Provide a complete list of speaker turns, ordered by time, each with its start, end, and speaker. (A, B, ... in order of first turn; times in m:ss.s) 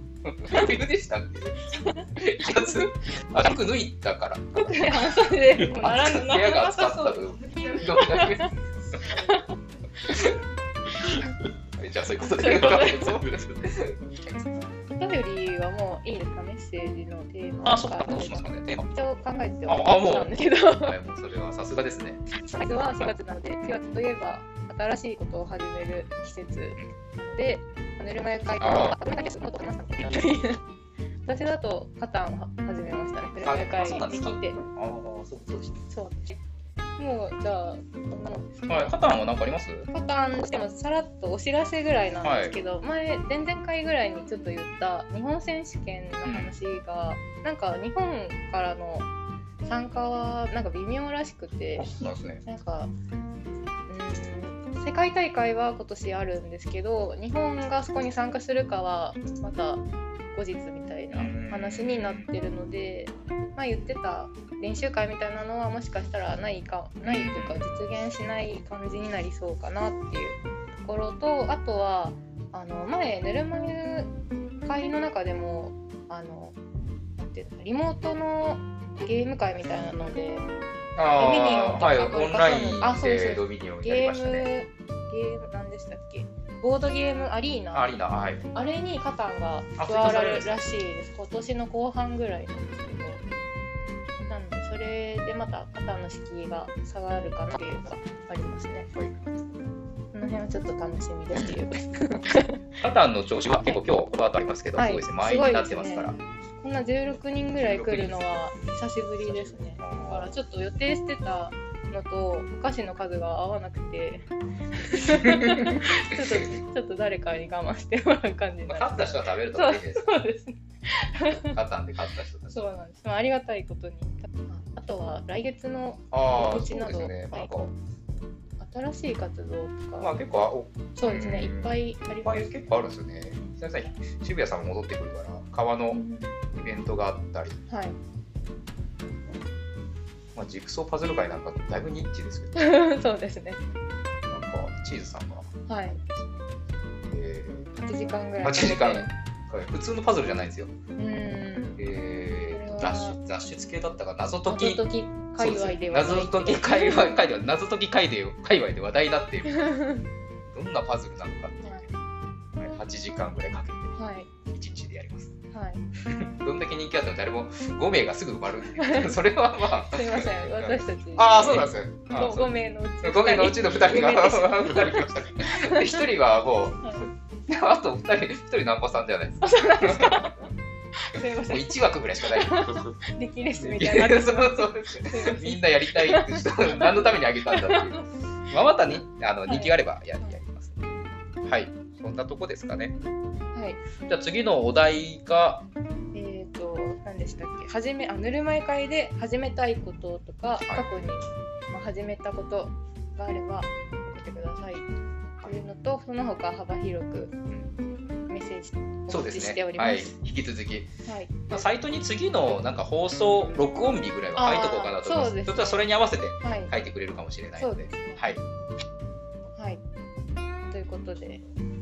0:00.2-0:09.3 A
0:01.7-0:02.0 B
0:04.6-0:08.5 B
0:09.1-0:10.3 B
0:10.1-0:10.4 A
0:11.1-0:11.3 B
0:11.8-0:14.0 A
0:12.2-0:13.1 B
0:14.9-0:21.0 B
0:17.6-0:18.9 A
0:19.7-0:22.2 A
0:22.4-0:30.6 B
0:28.6-0:29.0 A
0:31.3-0:34.6 B
0:33.4-0:35.8 A
0:35.9-0:36.4 B
0:37.0-0:38.9 B
0:38.7-0:39.9 A
0:39.9-0:49.1 B
0:42.2-0:42.6 A
0:46.2-0:46.5 A
0:49.6-0:51.9 B
0:51.8-0:52.4 A
0:52.4-0:52.9 B
0:53.9-1:16.6 B
1:01.1-1:02.3 A
1:07.0-1:07.6 A
1:17.2-1:20.5 B
1:21.0-1:24.5 A
1:21.2-1:27.9 B
1:27.7-1:28.5 A
1:28.5-1:33.2 B
1:29.8-1:30.6 A
1:34.3-1:38.9 B
1:38.9-1:39.5 A
1:40.1-1:42.6 B
1:42.8-1:46.2 A
1:44.8-1:46.1 B
1:46.6-2:01.6 B
1:47.6-1:48.2 A
1:49.2-1:50.4 A
1:55.1-1:56.5 A
1:58.7-2:00.1 A
2:01.3-2:02.7 A
2:02.5-2:07.5 B
2:06.1-2:07.7 A
2:08.6-2:10.1 B
2:10.0-2:17.6 A
2:11.0-2:12.5 B
2:15.9-2:16.3 B
2:17.7-2:18.0 B
2:20.4-2:22.7 A
2:22.6-2:23.6 B
2:24.3-2:25.5 A
2:25.7-2:26.0 B
2:27.1-2:27.7 A
2:27.7-2:29.1 B
2:28.4-2:30.7 A
2:31.0-2:31.8 B
2:31.8-2:34.8 A
2:32.5-2:33.2 B
2:34.5-2:37.2 B
2:35.4-2:39.7 A
2:39.5-2:40.0 B
2:40.5-2:41.9 A
2:42.6-2:45.4 A
2:44.0-2:44.3 B
2:45.5-2:45.8 B
2:46.0-2:56.9 A
2:48.8-2:49.2 B
2:49.9-2:56.0 B
2:56.8-2:57.1 B
2:57.5-3:00.3 A
2:59.4-3:08.0 B
3:01.2-3:02.7 A
3:03.6-3:10.8 A
3:09.5-3:10.4 B
3:11.4-3:13.0 A
3:13.6-3:13.8 B
3:14.0-3:15.7 A
3:16.1-3:24.9 B
3:20.6-3:20.9 A
3:25.4-3:27.3 B
3:28.3-3:30.1 B
3:29.1-3:30.9 A
3:31.0-3:31.5 B
3:31.5-3:38.4 A
3:34.4-3:35.9 B
3:36.4-3:36.7 B
3:37.6-3:38.2 B
3:39.6-3:39.8 B
3:40.7-3:41.4 B